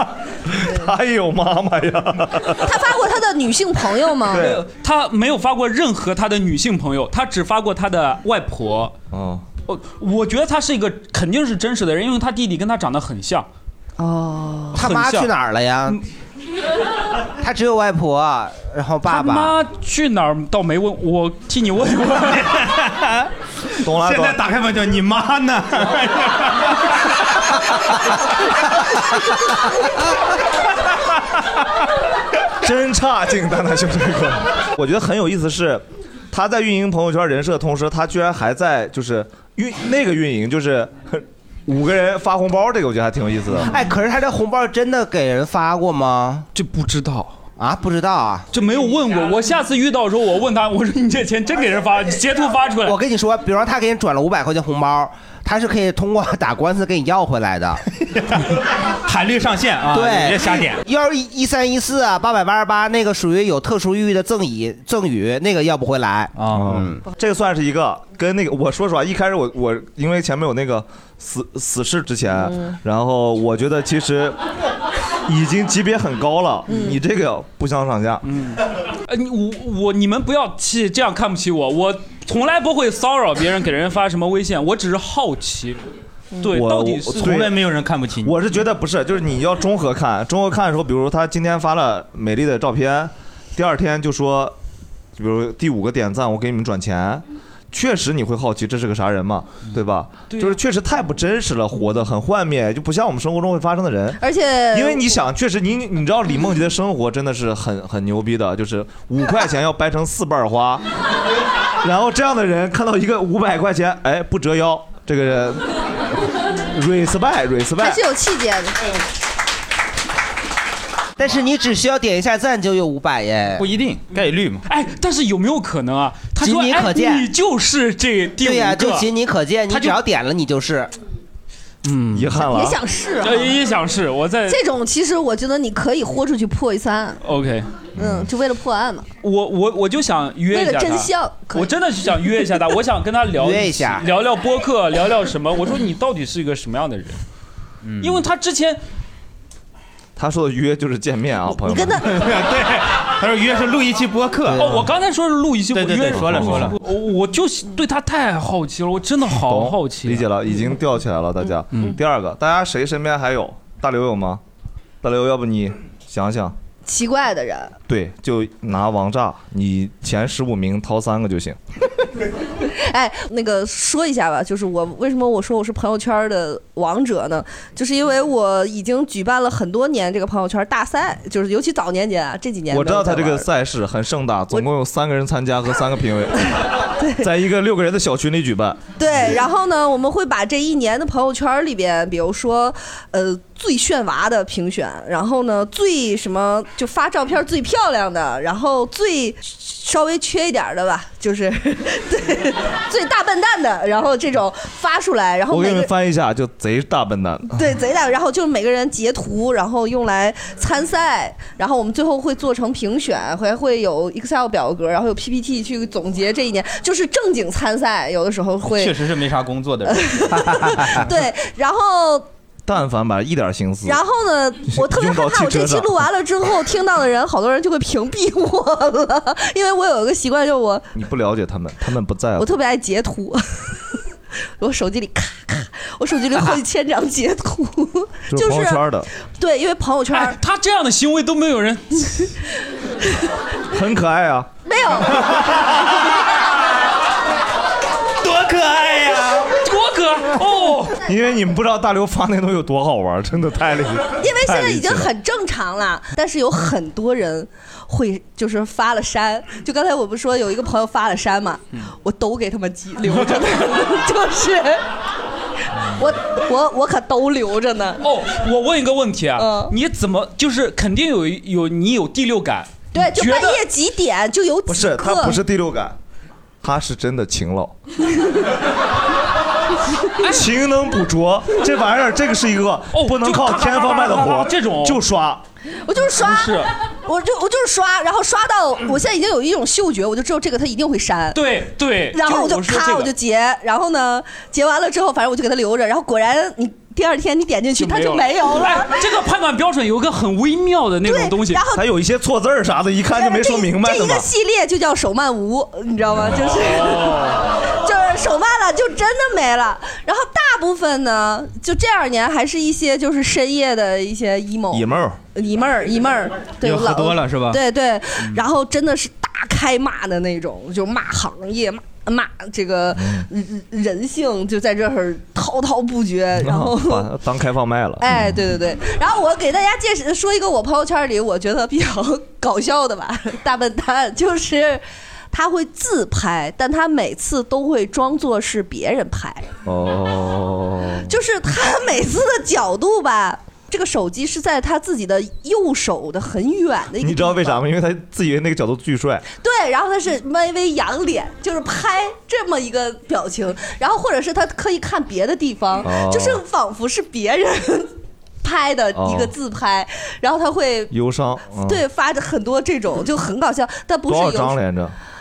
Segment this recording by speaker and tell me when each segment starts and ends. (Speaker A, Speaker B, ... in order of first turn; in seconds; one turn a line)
Speaker A: 0.5-2.7
Speaker B: 2.6-4.5
Speaker A: 4.2-4.6
Speaker C: 4.3-8.9
Speaker A: 9.1-9.4
Speaker C: 9.7-13.5
Speaker B: 14.0-14.8
Speaker C: 14.7-15.3
Speaker D: 14.7-16.0
Speaker D: 17.4-19.6
Speaker C: 19.0-22.7
Speaker E: 22.3-23.3
Speaker A: 23.8-24.4
Speaker E: 23.8-26.6
Speaker A: 32.6-43.7
Speaker D: 43.6-46.5
Speaker C: 46.5-47.4
Speaker D: 47.6-48.4
Speaker C: 48.5-53.0
Speaker D: 52.8-57.8
Speaker E: 58.2-60.8
Speaker D: 59.9-66.4
Speaker E: 66.3-66.9
Speaker A: 66.5-74.4
Speaker A: 75.2-78.2
Speaker C: 78.2-85.8
Speaker C: 86.4-87.4
Speaker A: 86.5-87.6
Speaker E: 87.2-88.4
Speaker A: 88.2-94.5
Speaker A: 95.2-110.8
Speaker C: 100.3-100.6
Speaker B: 104.2-105.2
Speaker A: 111.8-115.7
Speaker A: 116.7-118.0
Speaker B: 117.8-118.9
Speaker D: 121.2-123.6
Speaker E: 123.6-124.6
Speaker C: 124.7-129.1
Speaker D: 126.4-127.3
Speaker D: 128.4-130.9
Speaker E: 131.8-132.2
Speaker A: 132.1-132.8
Speaker B: 132.4-133.6
Speaker C: 133.2-134.6
Speaker B: 134.5-137.2
Speaker C: 137.2-137.7
Speaker A: 137.9-138.3
Speaker B: 137.9-139.1
Speaker C: 139.2-147.2
Speaker B: 140.5-141.7
Speaker D: 143.4-144.1
Speaker E: 147.8-148.2
Speaker C: 148.0-148.8
Speaker A: 150.2-152.2
Speaker B: 151.5-152.1
Speaker E: 152.1-154.9
Speaker D: 154.4-154.8
Speaker C: 154.6-160.3
Speaker E: 155.7-156.8
Speaker A: 156.2-156.6
Speaker A: 159.4-164.4
Speaker A: 165.0-166.6
Speaker B: 166.8-167.8
Speaker A: 167.9-171.6
Speaker B: 172.6-183.5
Speaker A: 182.7-188.8
Speaker B: 187.0-187.2
Speaker B: 189.0-205.9
Speaker A: 205.5-207.7
Speaker B: 207.5-219.0
Speaker E: 218.7-220.9
Speaker B: 219.9-222.3
Speaker A: 222.6-224.0
Speaker B: 223.8-230.9
Speaker A: 224.7-226.0
Speaker A: 230.9-232.5
Speaker B: 232.4-233.4
Speaker B: 234.6-240.4
Speaker A: 238.3-239.1
Speaker C: 240.1-242.3
Speaker A: 243.7-244.5
Speaker B: 244.6-245.5
Speaker E: 248.2-249.5
Speaker C: 249.5-251.0
Speaker A: 251.0-255.1
Speaker B: 254.2-264.8
Speaker B: 265.9-268.0
Speaker C: 268.0-273.6
Speaker B: 269.4-269.7
Speaker B: 272.9-275.4
Speaker A: 274.7-276.0
Speaker A: 276.6-277.7
Speaker A: 280.2-285.4
Speaker C: 282.9-285.0
Speaker B: 285.9-291.4
Speaker C: 286.1-286.7
Speaker C: 291.3-293.1
Speaker B: 292.1-299.0
Speaker C: 297.8-301.6
Speaker B: 301.0-301.9
Speaker A: 301.7-304.2
Speaker B: 303.1-327.1
Speaker C: 306.4-307.5
Speaker A: 314.7-315.2
Speaker E: 316.6-317.6
Speaker A: 322.9-323.3
Speaker A: 326.4-328.4
Speaker B: 328.0-339.5
Speaker A: 339.6-341.1
Speaker B: 341.1-347.6
Speaker A: 347.0-349.2
Speaker B: 349.3-357.9
Speaker A: 355.8-356.4
Speaker B: 358.4-360.9
Speaker A: 358.9-359.3
Speaker A: 360.9-361.8
Speaker B: 361.6-364.6
Speaker A: 364.1-364.9